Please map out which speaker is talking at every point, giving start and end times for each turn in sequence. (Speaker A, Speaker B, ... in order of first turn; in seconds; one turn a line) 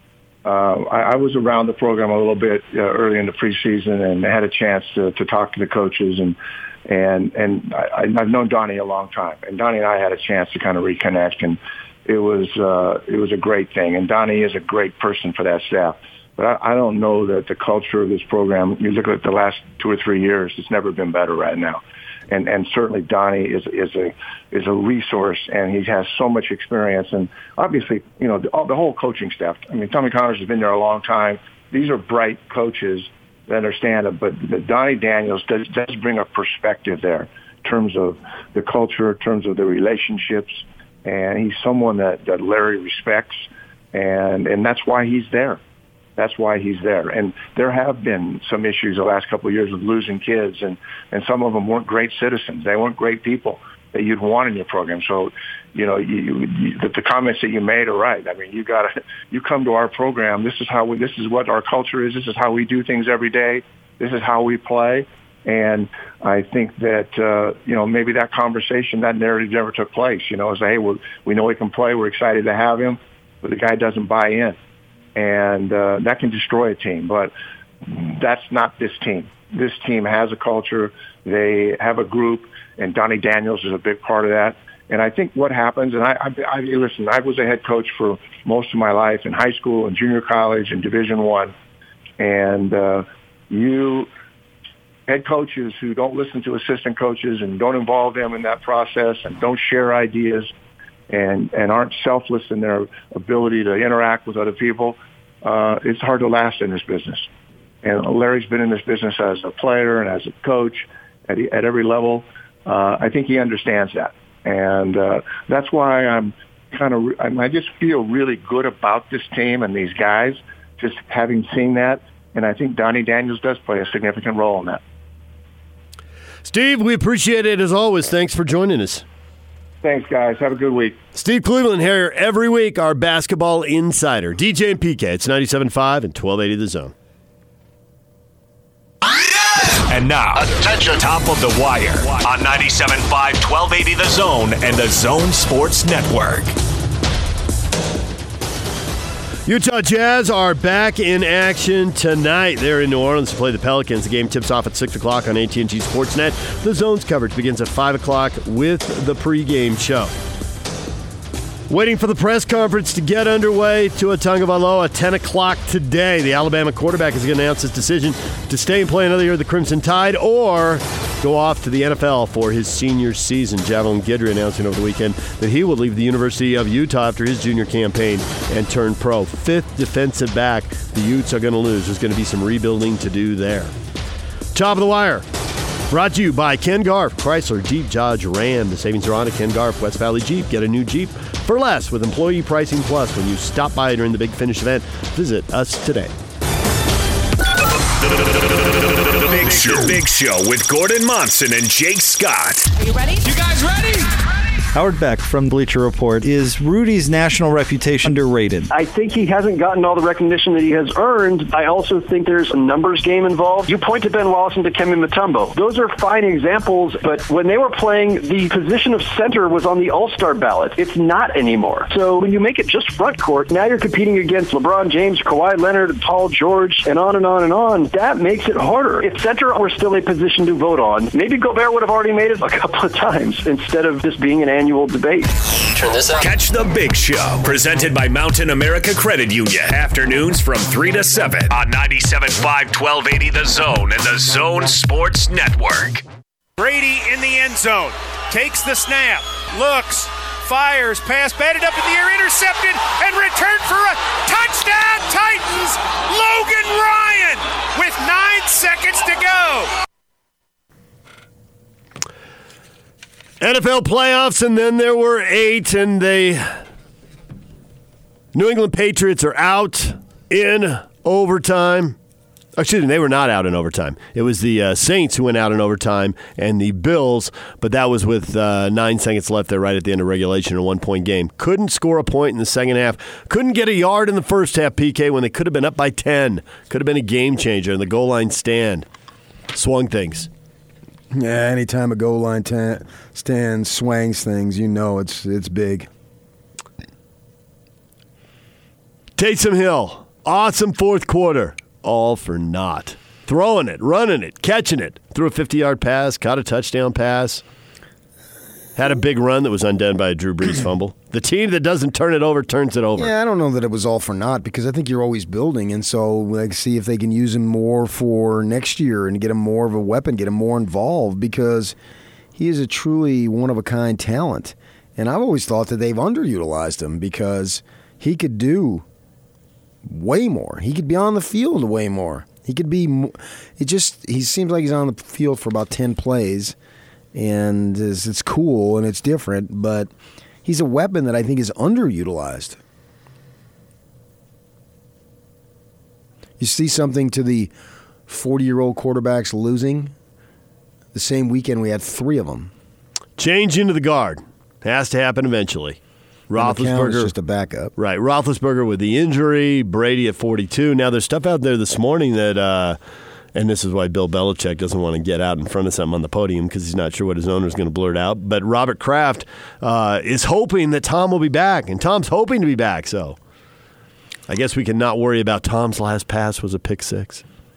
Speaker A: 0.5-45.6
Speaker A: 46.2-74.6
Speaker A: 75.2-77.3
Speaker A: 77.8-91.5
Speaker A: 92.2-94.1
Speaker A: 95.1-100.5
Speaker A: 101.1-107.3
Speaker A: 107.8-124.8
Speaker B: 126.4-129.0
Speaker A: 129.8-131.0
Speaker B: 131.2-136.9
Speaker C: 139.7-146.6
Speaker B: 149.5-160.1
Speaker B: 161.7-183.7
Speaker B: 184.5-185.2
Speaker B: 185.9-196.1
Speaker C: 198.3-202.7
Speaker D: 203.1-204.1
Speaker E: 204.7-208.7
Speaker F: 208.7-235.3
Speaker C: 236.0-246.0
Speaker D: 246.6-259.7
Speaker B: 263.4-266.6
Speaker B: 268.3-272.0
Speaker B: 272.6-288.9
Speaker B: 289.5-290.3
Speaker G: 291.1-295.9
Speaker B: 299.2-307.4
Speaker B: 308.8-313.1
Speaker G: 313.0-321.8
Speaker G: 322.4-328.9
Speaker G: 329.9-336.6
Speaker G: 337.1-339.9
Speaker G: 340.4-342.6
Speaker G: 346.4-347.5
Speaker G: 348.1-349.9
Speaker G: 350.9-352.5
Speaker B: 353.2-357.1
Speaker G: 356.4-357.7
Speaker B: 357.8-362.8
Speaker B: 363.4-373.2
Speaker B: 374.3-377.2